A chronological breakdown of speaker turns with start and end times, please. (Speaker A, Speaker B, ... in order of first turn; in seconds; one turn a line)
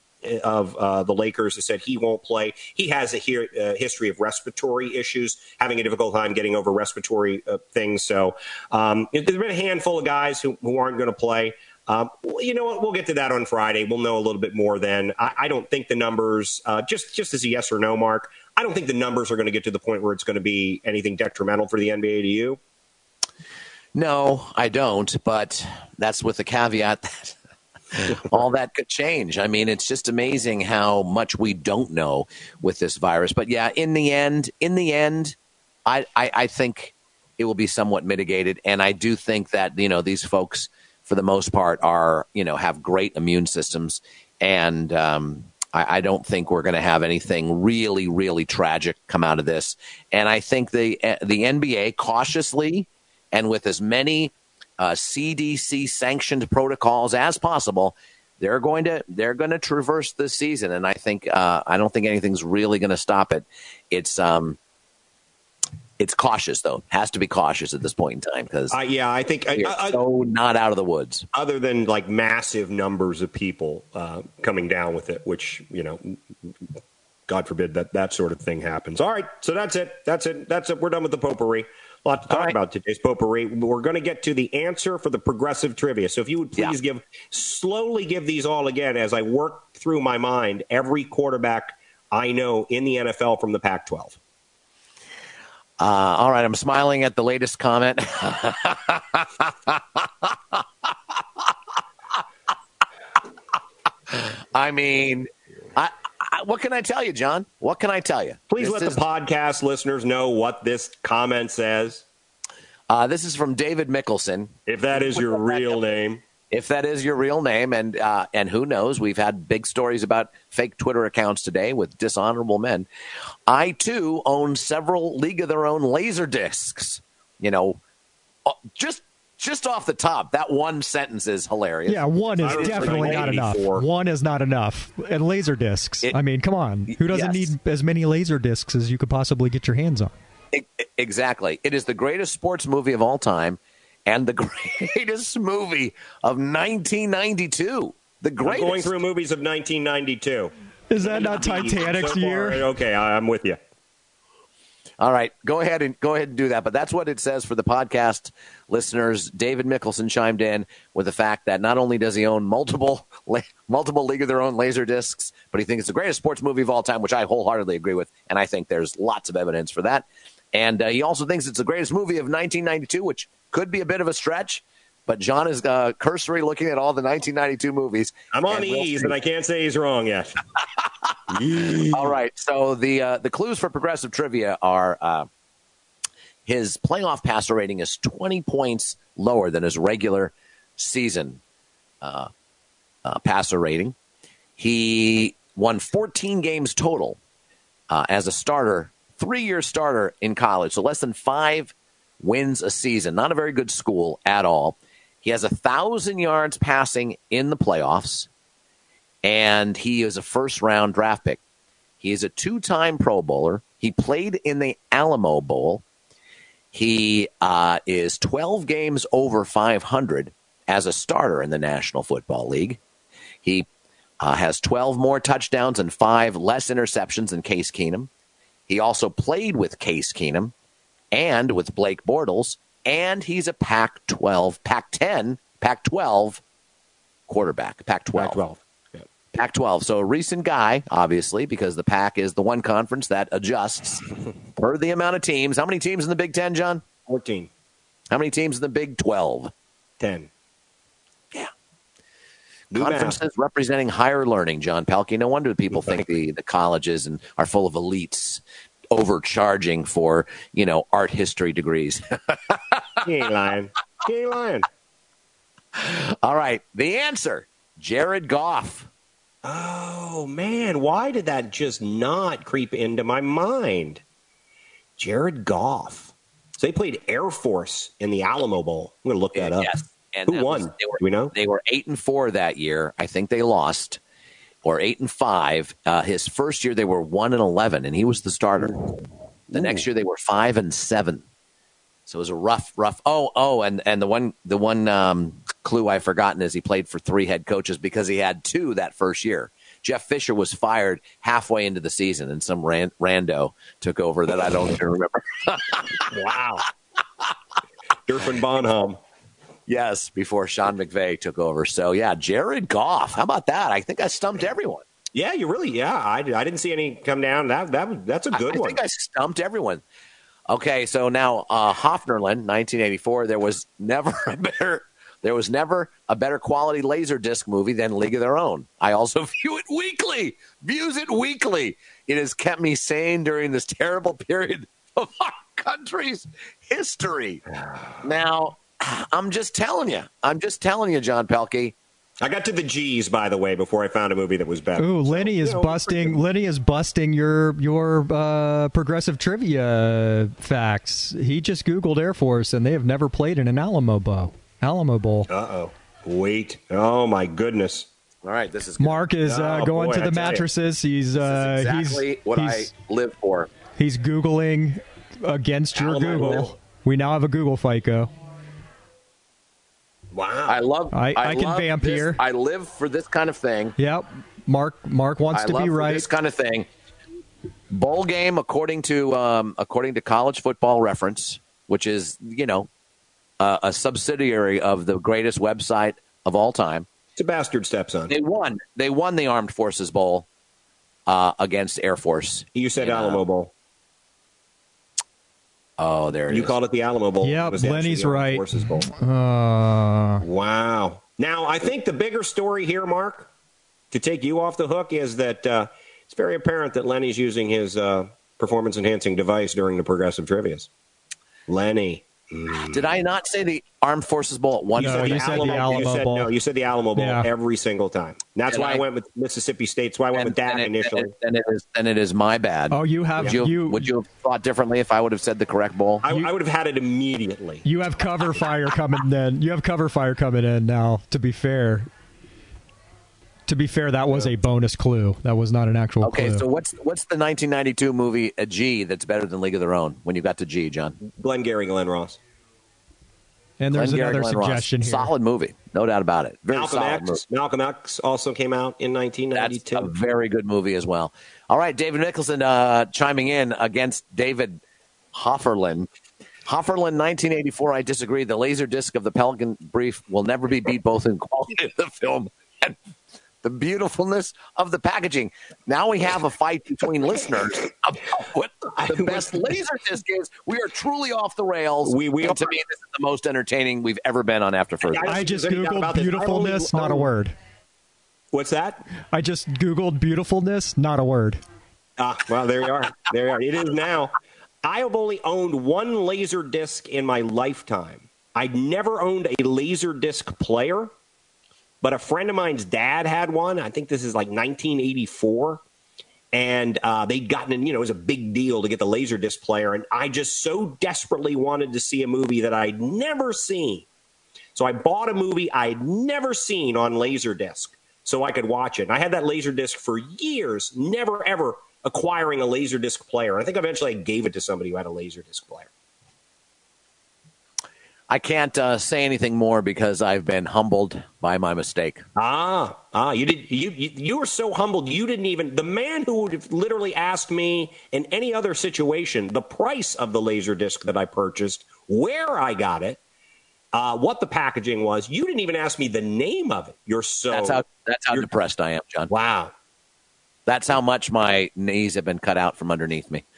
Speaker A: 0.2-22.6
Speaker B: 23.9-27.4
Speaker B: 27.9-64.6
Speaker B: 66.0-68.8
Speaker A: 68.7-70.0
Speaker B: 69.5-71.3
Speaker A: 71.3-76.2
Speaker A: 77.3-94.2
Speaker B: 82.3-82.6
Speaker B: 95.8-101.5
Speaker B: 104.1-109.0
Speaker A: 108.5-112.0
Speaker B: 112.9-114.5
Speaker A: 114.7-116.2
Speaker B: 115.1-115.8
Speaker B: 116.5-122.9
Speaker B: 123.5-127.8
Speaker B: 128.4-133.4
Speaker C: 131.9-140.1
Speaker A: 132.4-133.8
Speaker B: 136.9-137.5
Speaker B: 140.5-149.0
Speaker A: 148.4-153.6
Speaker C: 150.9-152.7
Speaker B: 155.0-179.1
Speaker A: 178.3-180.3
Speaker A: 181.3-182.2
Speaker B: 181.9-185.3
Speaker B: 186.4-191.4
Speaker B: 192.0-192.3
Speaker B: 193.1-193.9
Speaker B: 194.6-197.2
Speaker B: 197.9-208.3
Speaker B: 209.2-211.4
Speaker B: 212.0-215.8
Speaker B: 216.7-222.8
Speaker B: 223.4-223.7
Speaker B: 224.2-228.1
Speaker B: 228.7-230.5
Speaker B: 231.1-236.4
Speaker B: 237.3-238.4
Speaker A: 238.2-239.1
Speaker B: 239.3-246.8
Speaker A: 247.1-247.5
Speaker B: 248.1-249.5
Speaker A: 250.0-250.3
Speaker A: 252.7-253.2
Speaker B: 252.7-263.0
Speaker A: 255.7-256.1
Speaker A: 263.0-264.6
Speaker B: 265.7-268.9
Speaker A: 269.4-274.0
Speaker A: 275.0-281.3
Speaker B: 279.3-284.0
Speaker B: 284.6-288.9
Speaker B: 289.5-291.2
Speaker A: 289.5-289.8
Speaker B: 292.1-306.1
Speaker A: 306.1-306.6
Speaker A: 308.1-309.0
Speaker B: 309.7-314.8
Speaker A: 315.1-318.8
Speaker B: 318.3-319.8
Speaker B: 320.5-337.4
Speaker A: 337.6-337.9
Speaker B: 338.0-341.7
Speaker A: 342.2-346.2
Speaker C: 344.8-355.3
Speaker A: 355.3-357.9
Speaker B: 358.2-359.0
Speaker C: 358.8-362.7
Speaker A: 359.2-360.4
Speaker B: 361.2-363.5
Speaker C: 363.8-368.1
Speaker A: 365.8-366.5
Speaker B: 365.8-366.6
Speaker A: 370.1-370.6
Speaker B: 370.4-373.7
Speaker C: 370.9-372.2
Speaker C: 373.8-376.1
Speaker B: 375.3-376.7
Speaker B: 377.7-382.7
Speaker B: 383.4-386.9
Speaker A: 387.2-388.1
Speaker B: 388.1-390.3
Speaker B: 391.1-393.2
Speaker A: 392.5-393.5
Speaker B: 395.8-396.6
Speaker A: 396.3-398.9
Speaker C: 397.2-400.2
Speaker A: 400.2-403.3
Speaker A: 403.9-410.7
Speaker A: 411.5-412.9
Speaker B: 412.7-415.9
Speaker A: 414.7-421.1
Speaker C: 414.8-416.3
Speaker C: 416.9-417.3
Speaker B: 418.5-418.8
Speaker B: 420.1-426.0
Speaker C: 422.7-423.9
Speaker A: 426.0-427.6
Speaker C: 427.6-431.9
Speaker C: 433.5-436.4
Speaker B: 436.0-441.0
Speaker A: 441.0-442.2
Speaker C: 443.6-445.1
Speaker B: 443.7-447.2
Speaker A: 446.5-449.9
Speaker B: 449.3-454.6
Speaker B: 455.1-455.9
Speaker B: 456.4-462.8
Speaker B: 463.4-475.1
Speaker A: 468.8-469.4
Speaker A: 471.8-472.6
Speaker A: 474.8-477.1
Speaker C: 475.1-477.4
Speaker A: 478.3-478.8
Speaker C: 479.1-481.4
Speaker A: 482.0-484.1
Speaker A: 484.6-490.9
Speaker A: 491.8-495.6
Speaker A: 496.3-503.9
Speaker A: 504.6-515.7
Speaker B: 518.1-522.0
Speaker A: 522.2-533.0
Speaker A: 533.7-538.3
Speaker B: 537.3-539.1
Speaker A: 539.1-539.5
Speaker B: 540.5-543.2